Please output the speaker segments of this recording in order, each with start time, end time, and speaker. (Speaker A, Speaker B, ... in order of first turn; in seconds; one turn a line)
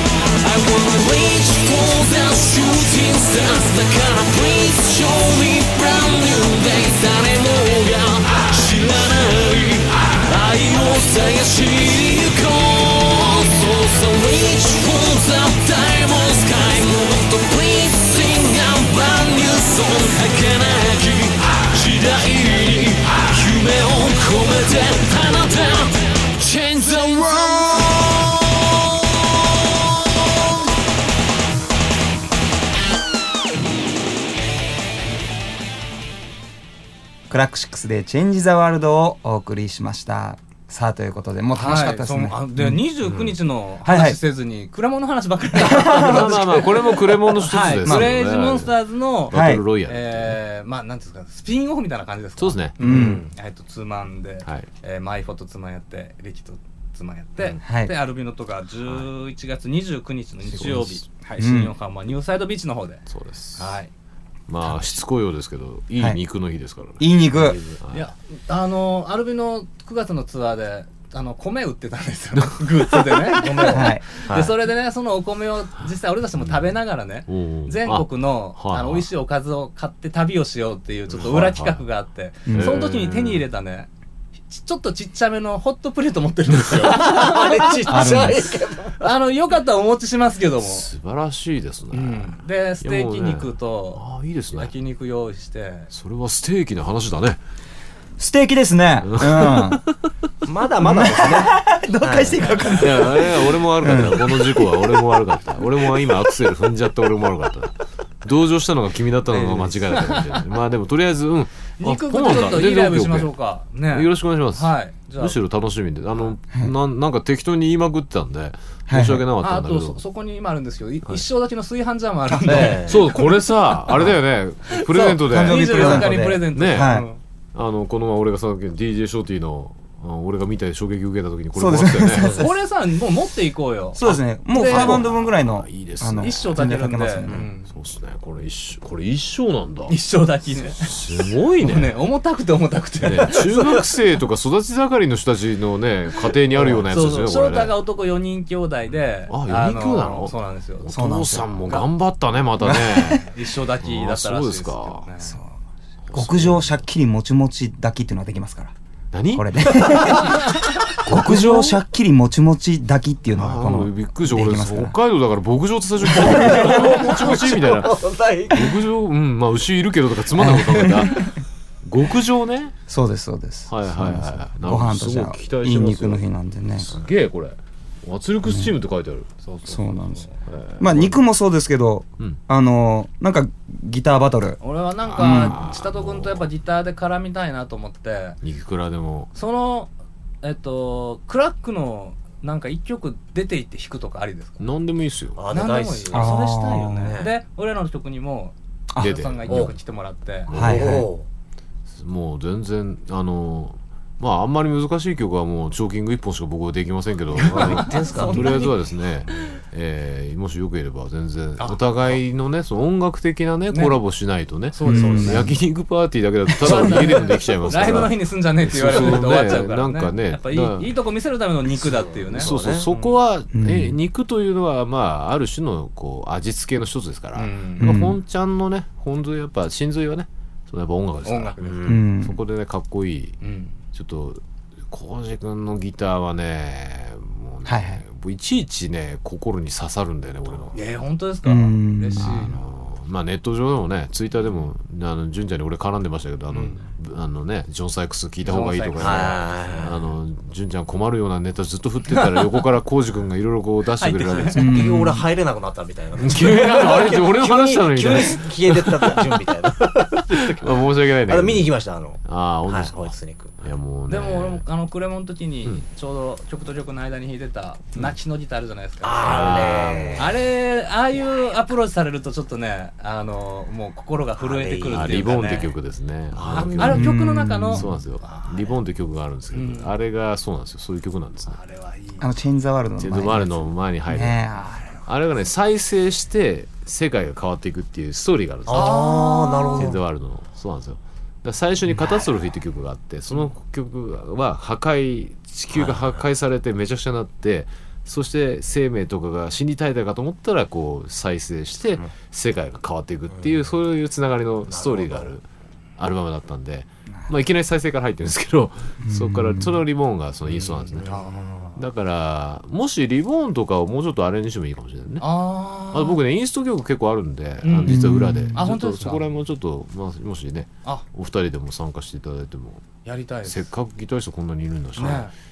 Speaker A: 0.4-27.9
Speaker B: 37.3-42.9
Speaker C: 41.5-63.0
Speaker B: 43.9-44.2
Speaker B: 45.6-46.4
Speaker D: 45.8-50.4
Speaker B: 47.8-48.1
Speaker B: 49.3-49.6
Speaker D: 52.4-53.1
Speaker B: 52.8-53.3
Speaker E: 52.8-53.3
Speaker B: 57.6-58.0
Speaker D: 60.5-61.0
Speaker B: 61.4-61.7
Speaker D: 63.1-63.7
Speaker C: 63.6-63.9
Speaker D: 64.5-67.0
Speaker B: 64.6-64.9
Speaker B: 67.0-67.6
Speaker E: 67.3-67.8
Speaker D: 67.8-68.1
Speaker C: 67.9-83.9
Speaker D: 72.3-73.2
Speaker E: 73.3-74.5
Speaker B: 73.7-74.1
Speaker D: 76.4-76.6
Speaker D: 77.3-79.1
Speaker D: 81.1-81.8
Speaker B: 82.5-82.8
Speaker D: 82.5-83.5
Speaker C: 84.5-87.7
Speaker D: 86.5-86.9
Speaker E: 86.8-88.9
Speaker B: 87.8-88.5
Speaker C: 89.0-90.9
Speaker D: 90.6-94.8
Speaker C: 91.9-95.9
Speaker D: 95.9-97.4
Speaker B: 98.2-99.8
Speaker D: 99.0-100.0
Speaker E: 100.4-102.6
Speaker B: 100.8-104.8
Speaker C: 102.5-102.9
Speaker D: 102.8-107.7
Speaker D: 108.2-113.3
Speaker C: 109.3-110.4
Speaker C: 111.8-115.4
Speaker D: 113.9-120.0
Speaker B: 118.9-119.2
Speaker C: 119.4-124.1
Speaker B: 122.3-122.7
Speaker E: 122.5-123.0
Speaker D: 122.6-127.0
Speaker C: 124.7-127.2
Speaker B: 125.0-127.1
Speaker D: 127.5-132.5
Speaker B: 131.6-132.5
Speaker C: 132.3-135.1
Speaker B: 133.9-137.5
Speaker D: 134.0-136.7
Speaker C: 136.2-137.7
Speaker D: 137.6-140.0
Speaker C: 139.9-141.1
Speaker D: 140.8-141.9
Speaker C: 141.6-143.8
Speaker D: 143.0-147.8
Speaker C: 146.2-150.9
Speaker D: 149.3-155.1
Speaker B: 150.9-151.6
Speaker B: 152.6-153.3
Speaker C: 152.7-155.4
Speaker B: 155.2-155.5
Speaker D: 156.1-156.8
Speaker B: 156.1-158.7
Speaker D: 159.1-160.4
Speaker B: 159.3-160.5
Speaker D: 161.0-161.8
Speaker B: 161.1-164.9
Speaker D: 163.3-171.3
Speaker E: 166.1-168.8
Speaker B: 166.2-166.8
Speaker B: 170.4-171.3
Speaker D: 171.8-172.7
Speaker B: 172.9-176.9
Speaker D: 173.7-179.3
Speaker B: 178.4-178.8
Speaker C: 179.4-180.4
Speaker B: 179.7-180.3
Speaker D: 180.5-181.2
Speaker B: 180.8-184.6
Speaker C: 184.6-188.4
Speaker D: 185.1-186.4
Speaker B: 185.2-185.6
Speaker D: 188.4-189.3
Speaker C: 189.3-189.9
Speaker C: 190.4-194.7
Speaker D: 194.6-195.4
Speaker E: 195.4-197.3
Speaker C: 195.5-200.5
Speaker B: 196.1-197.2
Speaker D: 199.0-199.8
Speaker E: 199.5-199.8
Speaker D: 200.5-201.0
Speaker B: 200.5-201.1
Speaker E: 200.5-201.3
Speaker D: 201.9-220.9
Speaker E: 207.4-208.8
Speaker C: 207.5-208.7
Speaker C: 209.3-209.6
Speaker C: 211.6-212.2
Speaker C: 213.7-214.0
Speaker C: 214.7-215.5
Speaker B: 214.8-215.6
Speaker E: 215.0-215.4
Speaker C: 216.6-223.2
Speaker E: 221.7-222.9
Speaker D: 222.4-233.4
Speaker B: 223.5-224.0
Speaker C: 227.3-227.9
Speaker B: 227.8-228.2
Speaker C: 231.2-232.1
Speaker E: 231.6-232.0
Speaker B: 231.9-232.4
Speaker C: 233.4-233.8
Speaker D: 233.9-240.8
Speaker B: 237.7-238.0
Speaker C: 240.7-242.6
Speaker B: 241.4-242.5
Speaker D: 242.2-254.9
Speaker C: 246.5-246.8
Speaker C: 248.4-249.9
Speaker E: 249.0-250.2
Speaker C: 254.0-254.7
Speaker E: 254.3-263.7
Speaker B: 254.6-255.3
Speaker D: 256.2-259.5
Speaker D: 260.3-264.6
Speaker C: 264.1-275.8
Speaker E: 269.0-270.4
Speaker D: 269.2-270.4
Speaker E: 274.4-275.3
Speaker D: 274.9-277.2
Speaker E: 276.4-277.0
Speaker C: 276.4-278.8
Speaker B: 276.8-277.9
Speaker D: 277.7-281.6
Speaker C: 279.5-279.9
Speaker C: 281.5-282.3
Speaker B: 282.2-285.1
Speaker D: 283.0-284.4
Speaker D: 285.1-305.4
Speaker E: 288.7-290.0
Speaker C: 288.7-289.9
Speaker E: 295.7-296.2
Speaker E: 303.4-303.6
Speaker E: 304.7-305.4
Speaker D: 306.0-311.1
Speaker B: 309.0-309.9
Speaker C: 310.6-311.5
Speaker E: 310.9-311.7
Speaker D: 311.8-315.3
Speaker C: 315.2-316.2
Speaker D: 315.9-322.9
Speaker C: 317.6-319.2
Speaker B: 317.9-318.7
Speaker C: 323.1-323.7
Speaker D: 323.5-325.3
Speaker C: 325.0-325.3